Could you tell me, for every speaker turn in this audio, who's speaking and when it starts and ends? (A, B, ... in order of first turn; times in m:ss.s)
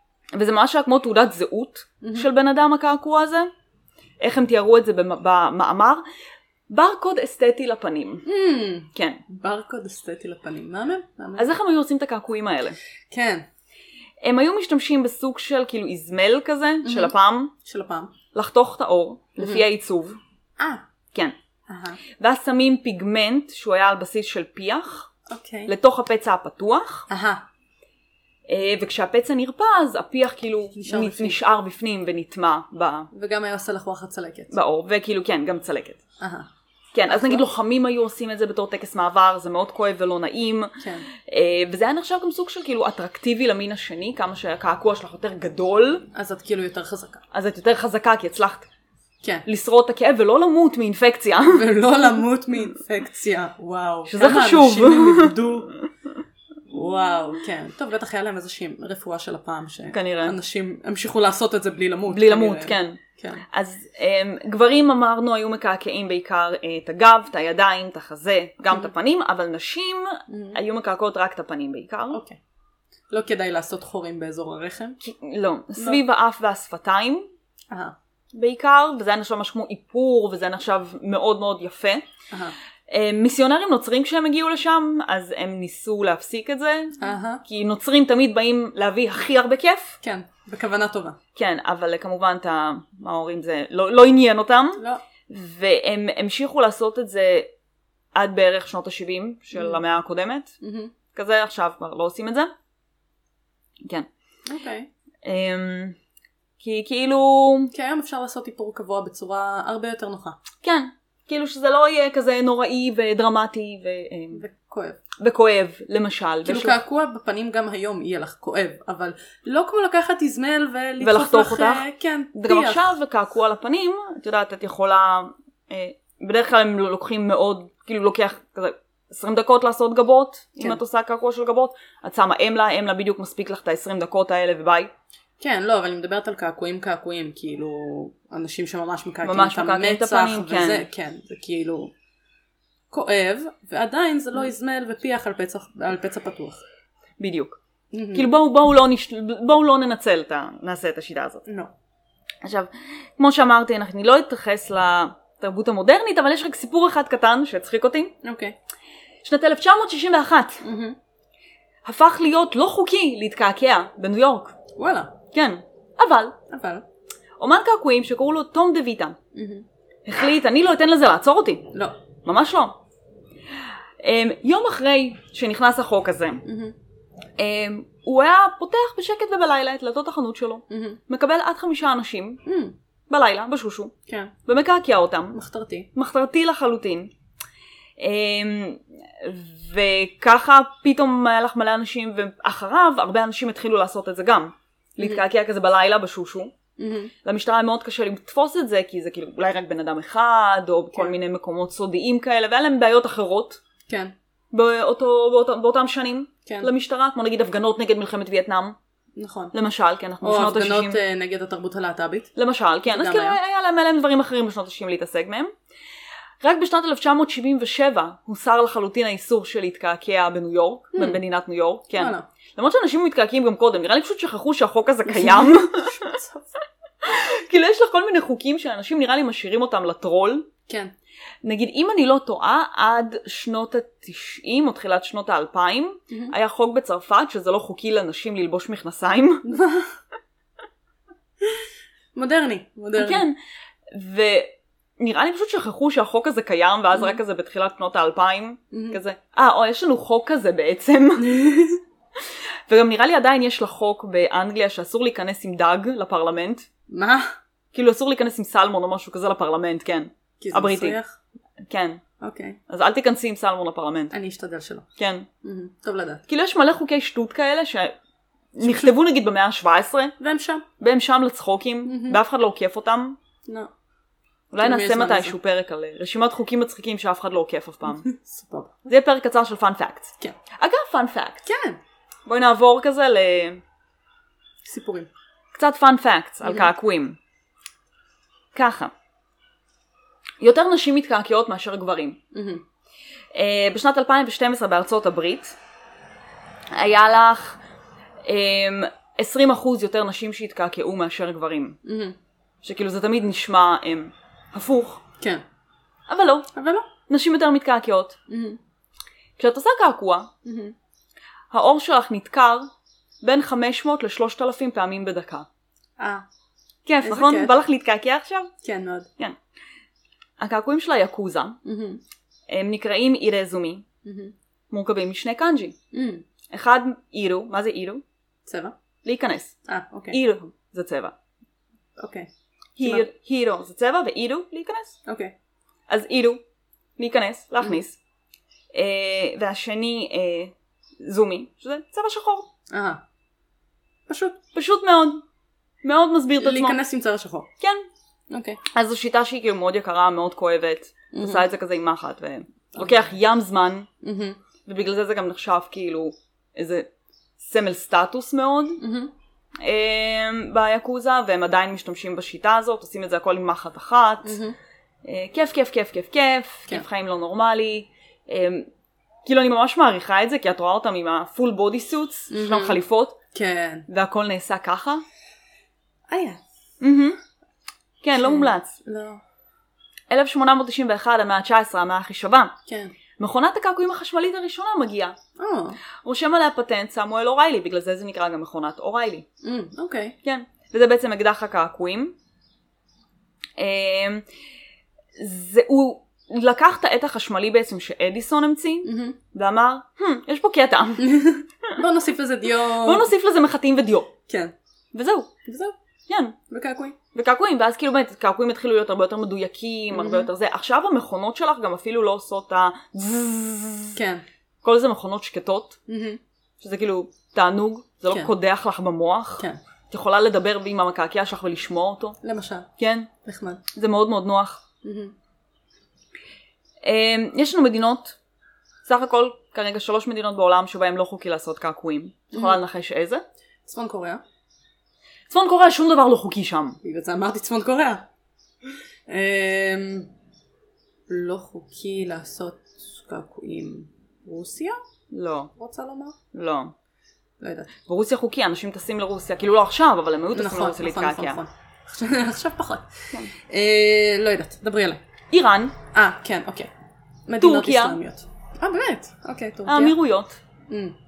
0:00.4-0:03.5 A
0:02.0-0:02.3 B
0:04.2-0:06.0 A
0:06.7-0:08.3 A
0:08.2-0:11.4 B
0:08.9-0:09.2 A
0:11.4-0:12.8 A
0:13.1-0:13.5 B
0:14.2-0:17.5 A
0:16.8-0:18.1 B
0:18.3-0:20.2 A
0:20.6-0:20.8 B
0:21.7-0:22.0 B
0:22.2-0:25.1 A
0:25.3-0:25.7 B
0:25.7-0:27.1 A
0:27.1-0:27.5 B
0:28.5-0:33.1 A
0:30.8-0:31.4 B
0:33.1-0:34.5 B
0:34.5-0:36.0 A
0:36.2-0:36.5 B
0:36.9-0:46.1 A
0:37.1-0:37.4 B
0:40.8-0:41.1 B
0:46.1-0:47.2 B
0:47.3-0:48.7 A
0:49.4-0:51.6 A
0:51.5-0:55.7 B
0:54.1-0:55.4 A
0:56.7-1:03.4 B
0:59.9-1:00.4 A
1:02.1-1:12.2 A
1:10.3-1:10.6 B
1:12.1-1:12.4 B
1:13.1-1:15.0 B
1:15.0-1:17.3 A
1:18.3-1:22.0 A
1:22.9-1:30.0 A
1:27.0-1:27.4 B
1:30.0-1:31.2 B
1:31.4-1:37.5 A
1:34.8-1:35.0 B
1:38.2-1:40.6 A
1:39.5-1:39.8 B
1:40.6-1:40.9 B
1:41.1-1:42.5 A
1:44.5-1:44.9 B
1:45.2-1:46.0 A
1:46.6-1:47.7 A
1:47.7-1:50.4 B
1:50.6-1:54.4 A
1:54.3-1:55.0 B
1:55.2-1:56.8 A
1:56.4-2:02.9 B
2:01.0-2:14.9 A
2:15.4-2:21.9 B
2:19.2-2:20.9 A
2:22.9-2:26.6 B
2:27.2-2:27.6 A
2:27.9-2:28.3 B
2:28.1-2:31.5 A
2:31.5-2:31.7 B
2:32.4-2:38.2 A
2:38.2-2:38.6 B
2:39.2-2:40.6 A
2:40.6-2:41.0 B
2:41.8-2:44.6 A
2:44.8-2:45.2 B
2:45.3-2:46.4 A
2:46.5-2:46.8 B
2:47.4-2:49.2 A
2:49.3-2:49.6 B
2:50.1-2:51.7 A
2:52.2-2:52.8 A
2:54.0-2:56.4 A
2:56.4-2:56.8 B
2:57.4-3:02.4 A
3:00.7-3:01.0 B
3:02.4-3:02.8 B
3:03.1-3:03.9 A
3:04.1-3:04.3 B
3:04.4-3:05.4 A
3:05.3-3:05.9 B
3:05.9-3:07.1 A
3:08.0-3:16.5 A
3:16.8-3:17.1 B
3:17.2-3:23.6 A
3:23.9-3:24.2 B
3:24.5-3:28.8 A
3:29.2-3:29.5 B
3:29.5-3:31.0 A
3:30.2-3:32.3 B
3:32.4-3:35.5 A
3:32.9-3:33.4 B
3:36.4-3:46.1 A
3:40.9-3:41.2 B
3:42.0-3:42.3 B
3:45.1-3:46.6 B
3:47.0-3:50.5 A
3:50.7-3:50.9 B
3:51.4-3:59.5 A
3:59.4-3:59.9 B
4:02.2-4:03.3 B
4:03.0-4:03.4 A
4:03.9-4:11.5 A
4:08.7-4:09.0 B
4:11.2-4:11.8 B
4:12.7-4:16.7 A
4:16.9-4:17.4 B
4:17.7-4:21.0 A
4:20.4-4:21.2 B
4:21.7-4:22.0 A
4:22.2-4:22.6 B
4:22.7-4:24.1 A
4:24.1-4:24.9 B
4:25.0-4:25.3 A
4:25.4-4:26.2 B
4:26.3-4:28.0 A
4:28.6-4:30.2 A
4:28.6-4:29.0 B
4:30.2-4:30.6 B
4:30.8-4:33.2 A
4:31.8-4:32.2 B
4:33.5-4:33.7 B
4:34.5-4:38.1 A
4:34.6-4:35.4 B
4:37.9-4:38.9 B
4:38.9-4:41.5 A
4:41.4-4:41.8 B
4:42.3-4:43.6 A
4:44.6-4:45.1 B
4:45.5-4:47.2 A
4:46.4-4:46.7 B
4:48.5-4:48.9 A
4:50.4-4:52.2 A
4:52.3-4:52.6 B
4:53.3-4:55.6 A
4:56.7-4:57.6 A
4:58.2-5:01.8 A
5:01.8-5:02.2 B
5:02.6-5:05.0 A
5:06.1-5:06.5 A
5:06.5-5:06.9 B
5:07.1-5:08.2 A
5:08.3-5:08.6 B
5:09.4-5:10.3 A
5:10.4-5:10.8 B
5:11.5-5:12.7 A
5:13.2-5:15.5 A
5:16.0-5:16.3 B
5:16.8-5:18.5 A
5:17.0-5:17.6 B
5:18.6-5:19.1 B
5:20.4-5:21.6 A
5:21.6-5:22.0 B
5:22.5-5:23.9 A
5:24.0-5:24.3 B
5:24.7-5:25.8 A
5:25.9-5:26.2 B
5:26.5-5:28.0 A
5:28.4-5:28.8 B
5:29.0-5:29.6 A
5:29.7-5:30.2 B
5:30.1-5:31.2 A
5:32.0-5:32.3 B
5:32.8-5:35.0 A
5:32.8-5:33.1 B
5:35.1-5:35.3 B
5:35.9-5:36.4 A
5:37.0-5:38.0 A
5:38.7-5:42.5 A
5:42.7-5:43.0 B
5:44.1-5:44.4 B
5:44.5-5:45.2 A
5:45.8-5:46.8 A
5:46.4-5:47.5 B
5:47.6-5:47.9 A
5:48.3-5:48.6 B
5:48.7-5:53.9 A
5:51.1-5:51.5 B
5:52.7-5:53.0 B
5:54.0-5:54.4 B
5:54.7-5:56.9 A
5:57.4-5:58.8 A
5:58.8-5:59.1 B
5:59.6-6:04.4 A
6:04.2-6:04.6 B
6:05.0-6:08.7 A
6:09.2-6:13.2 A
6:12.3-6:12.8 B
6:13.3-6:13.9 B
6:13.9-6:15.0 A
6:16.1-6:16.4 B
6:16.8-6:17.2 A
6:18.0-6:18.8 A
6:18.2-6:19.2 B
6:20.1-6:22.5 A
6:22.7-6:22.9 B
6:23.2-6:25.2 A
6:25.4-6:25.8 B
6:26.0-6:29.3 A
6:29.4-6:30.2 B
6:30.2-6:32.2 A
6:33.6-6:34.2 A
6:35.2-6:41.8 A
6:38.8-6:39.2 B
6:41.0-6:43.1 B
6:42.7-6:44.1 A
6:44.3-6:44.6 B
6:44.9-6:45.3 A
6:45.4-6:45.8 B
6:46.1-6:46.4 A
6:46.5-6:47.0 B
6:47.1-6:54.0 A
6:49.9-6:50.3 B
6:54.0-6:54.2 B
6:54.6-6:55.8 A
6:55.9-6:56.2 B
6:56.6-7:02.2 A
7:02.2-7:02.7 B
7:02.8-7:03.1 A
7:03.2-7:03.6 B
7:03.7-7:04.6 A
7:04.8-7:05.2 B
7:06.8-7:08.2 A
7:08.8-7:13.2 A
7:12.3-7:12.6 B
7:13.7-7:14.2 B
7:15.3-7:16.8 A
7:16.8-7:18.1 B
7:19.1-7:20.1 B
7:21.1-7:24.8 B
7:25.1-7:25.5 A
7:25.6-7:26.2 B
7:26.3-7:26.7 A
7:27.4-7:27.7 B
7:27.8-7:31.4 A
7:30.3-7:35.0 B
7:35.3-7:35.8 A
7:35.9-7:36.7 B
7:37.3-7:40.0 B
7:37.4-7:38.0 A
7:39.7-7:40.4 A
7:40.7-7:41.0 B